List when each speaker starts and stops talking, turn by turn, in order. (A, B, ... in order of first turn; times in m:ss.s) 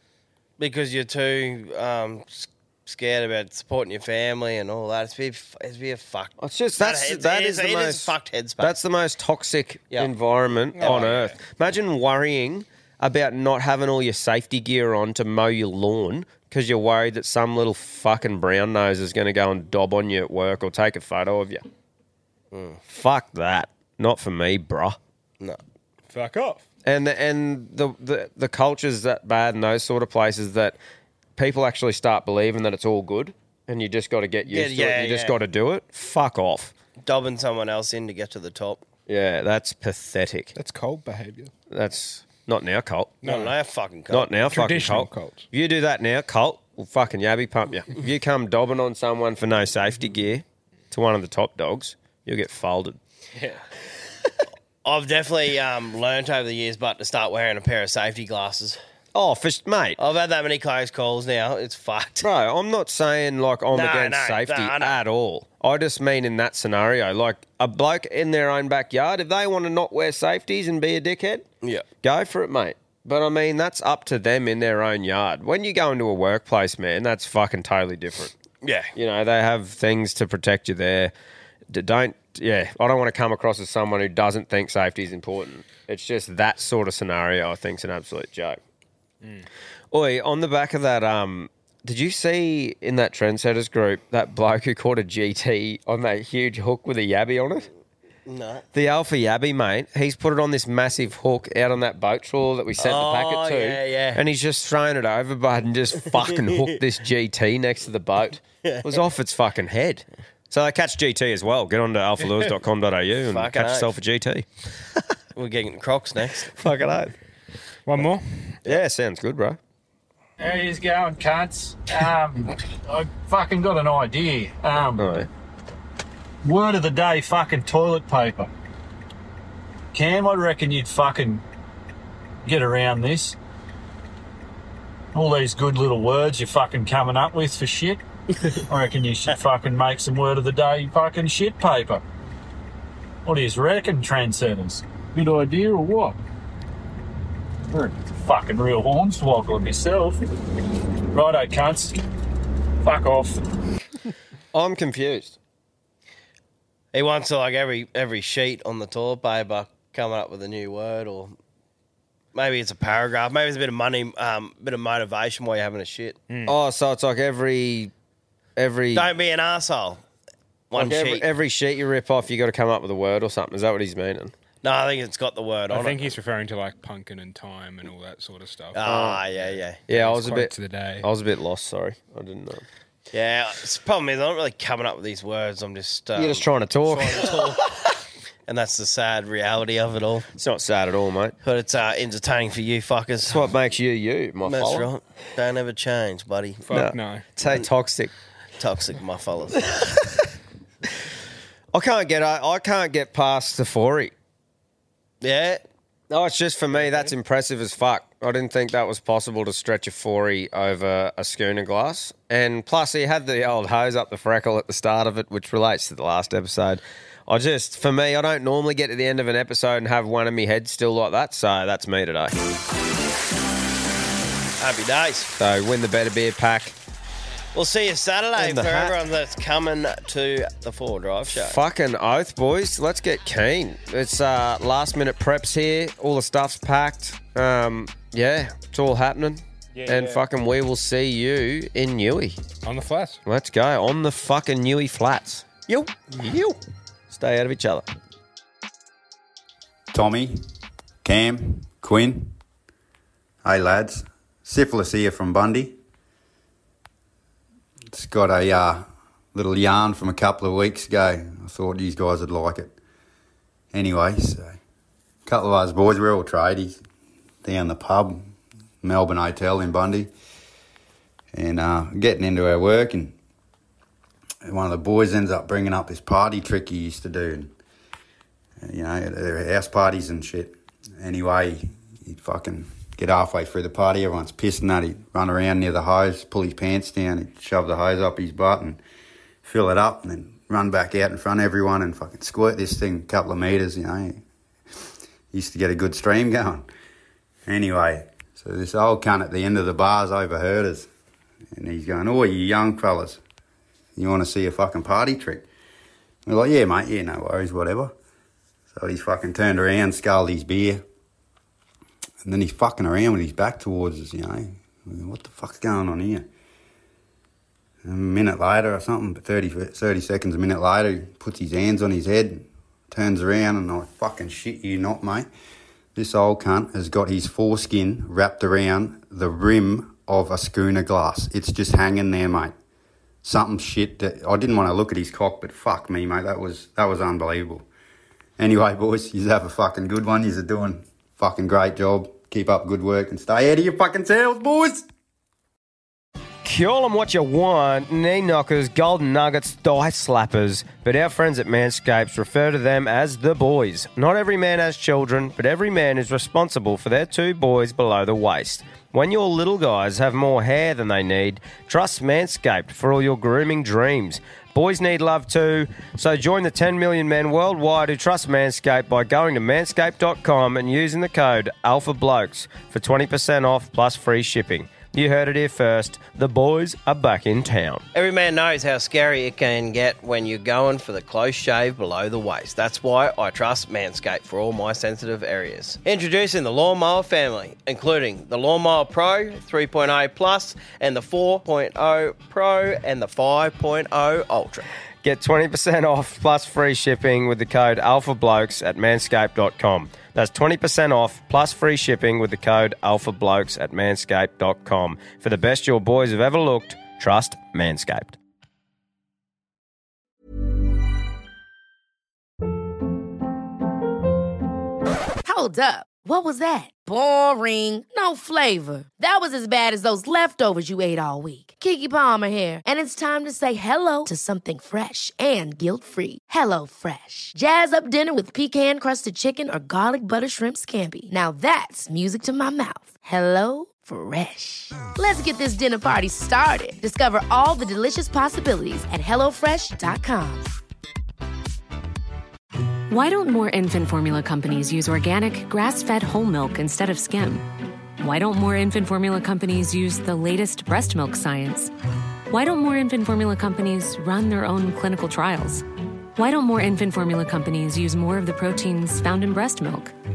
0:00.6-0:08.8 A
0:06.4-0:21.6 B
0:10.7-0:11.4 C
0:10.8-0:11.1 A
0:22.5-0:22.8 A
0:22.9-0:25.0 B
0:26.1-0:26.6 C
0:26.8-0:30.8 B
0:31.4-0:36.7 B
0:34.5-0:35.4 A
0:37.0-0:38.8 A
0:39.1-0:40.5 B
0:40.5-0:41.5 C
0:41.7-0:43.2 B
0:43.2-0:43.5 C
0:43.2-0:44.3 A
0:44.1-0:53.0 B
0:44.4-0:45.4 C
0:53.4-0:53.6 C
0:54.8-0:58.8 A
0:59.1-1:00.0 B
1:00.0-1:02.3 A
1:02.2-1:11.4 B
1:03.7-1:05.0 A
1:12.0-1:18.3 B
1:18.6-1:18.9 A
1:18.9-1:21.1 B
1:21.7-1:28.6 B
1:29.9-1:37.7 B
1:38.2-1:38.6 A
1:38.7-1:54.4 B
1:42.8-1:44.2 A
1:46.1-1:46.7 A
1:48.6-1:49.0 A
1:53.2-1:53.9 A
1:55.4-1:56.5 A
1:56.5-1:57.1 B
1:57.9-1:58.6 C
1:58.6-1:59.6 B
2:00.4-2:05.1 D
2:05.0-2:05.3 B
2:06.4-2:08.5 D
2:09.9-2:11.4 D
2:12.4-2:13.4 D
2:15.1-2:18.0 D
2:18.7-2:22.0 D
2:23.2-2:26.2 D
2:27.7-2:30.2 D
2:31.1-2:32.0 D
2:32.8-2:33.4 D
2:34.5-2:35.4 B
2:36.9-2:41.3 A
2:42.3-2:46.2 A
2:46.3-2:46.6 C
2:46.4-2:47.9 B
2:48.6-2:49.1 B
2:48.9-2:50.0 A
2:50.7-2:51.3 A
2:50.7-2:54.3 B
2:54.6-2:56.2 A
2:55.7-3:01.1 C
2:58.7-2:59.8 A
2:58.8-2:59.2 B
2:59.9-3:02.6 B
3:03.1-3:07.7 A
3:06.1-3:07.4 B
3:08.5-3:10.3 A
3:10.3-3:11.4 B
3:11.4-3:13.5 A
3:13.3-3:14.9 B
3:14.4-3:16.6 A
3:16.6-3:17.2 C
3:16.7-3:18.1 B
3:18.6-3:19.6 A
3:21.7-3:24.1 B
3:25.2-3:25.6 A
3:26.1-3:42.4 B
3:44.6-3:45.3 A
3:45.4-3:46.8 B
3:47.5-3:51.6 A
3:48.4-3:48.9 B
3:51.3-4:02.4 B
3:59.7-4:00.2 C
4:02.6-4:03.2 C
4:03.2-4:06.6 B
4:07.1-4:07.8 B
4:09.9-4:10.5 E
4:11.0-4:12.3 E
4:13.4-4:15.8 E
4:17.9-4:22.8 E
4:23.7-4:24.6 E
4:25.2-4:26.8 E
4:27.4-4:28.3 E
4:28.8-4:30.1 E
4:31.3-4:33.1 E
4:34.4-4:37.5 E
4:38.6-4:48.8 E
4:49.4-4:54.2 E
4:55.3-4:56.7 E
4:57.4-5:00.9 E
5:01.5-5:03.2 E
5:04.0-5:05.4 E
5:06.2-5:07.9 E
5:08.7-5:10.8 E
5:12.2-5:16.3 E
5:17.8-5:25.3 E
5:25.9-5:32.5 E
5:33.2-5:37.6 E
5:38.4-5:44.8 E
5:46.4-6:17.8 B
6:17.9-6:34.7 A
6:35.0-6:48.2 B
6:55.2-7:20.5 F
7:22.9-7:27.4 G
7:28.0-7:31.7 G
7:32.3-7:35.6 G
7:36.2-7:39.9 G